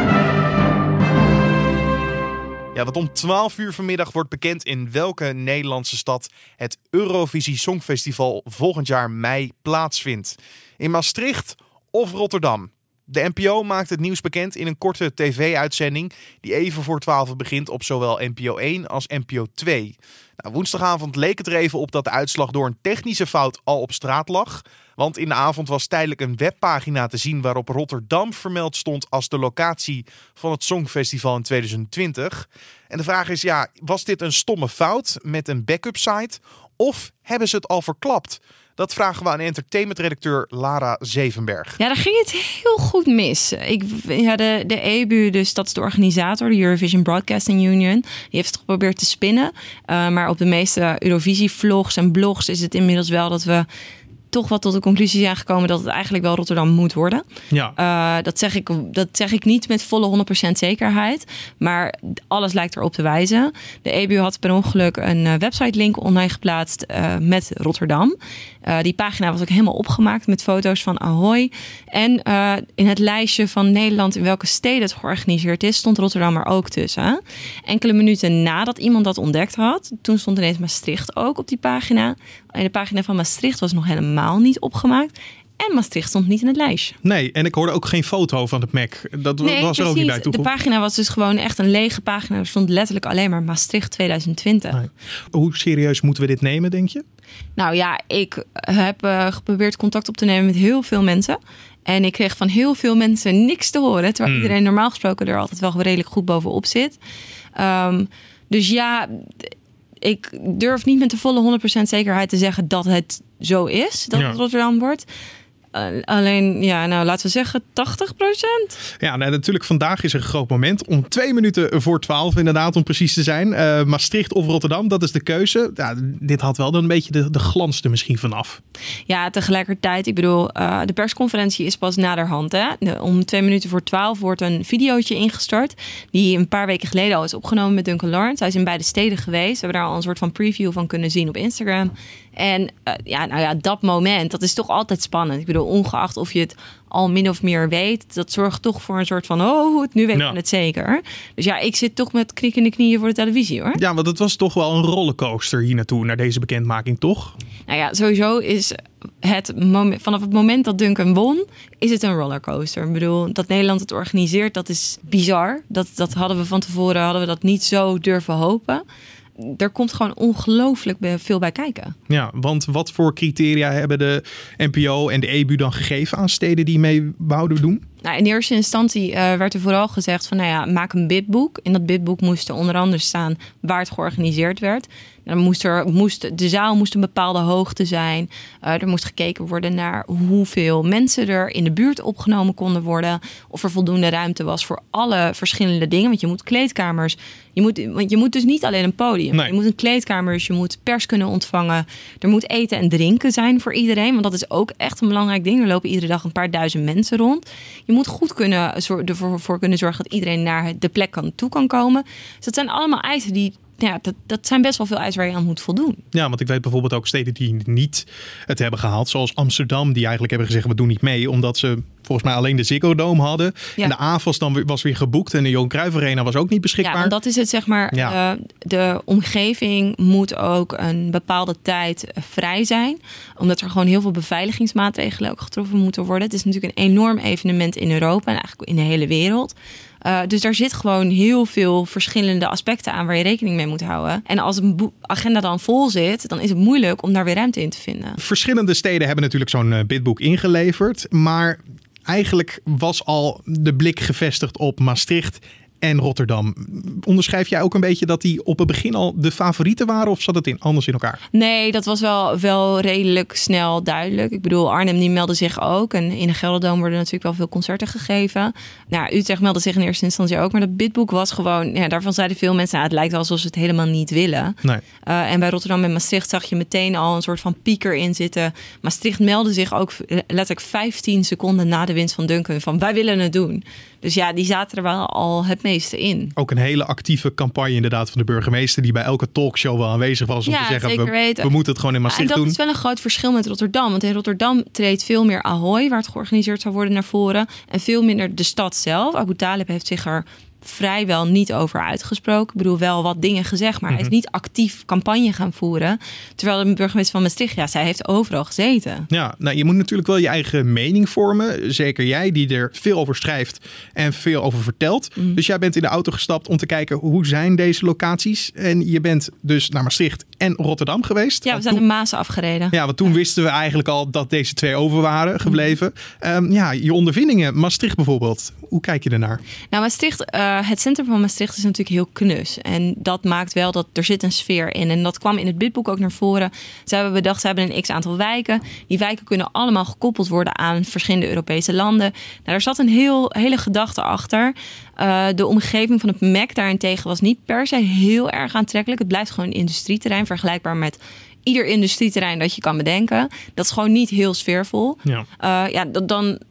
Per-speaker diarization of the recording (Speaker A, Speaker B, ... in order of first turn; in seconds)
Speaker A: 2.8-41.8, 57.5-57.8, 87.0-90.5, 94.7-97.0, 104.3-104.5, 119.0-128.6, 153.8-157.3, 172.1-177.8, 216.1-227.2, 248.2-261.2, 286.4-292.6, 309.1-321.8, 322.7-329.4
Speaker B: 41.8-53.7, 54.3-57.2, 57.8-87.0, 89.4-94.8, 97.6-107.0, 107.6-115.1, 115.7-118.8, 129.1-153.8, 157.7-168.8, 169.4-171.9, 178.0-216.0, 226.8-248.2, 261.3-286.3, 290.4-291.5, 292.1-309.1, 321.4-322.8, 329.7-356.4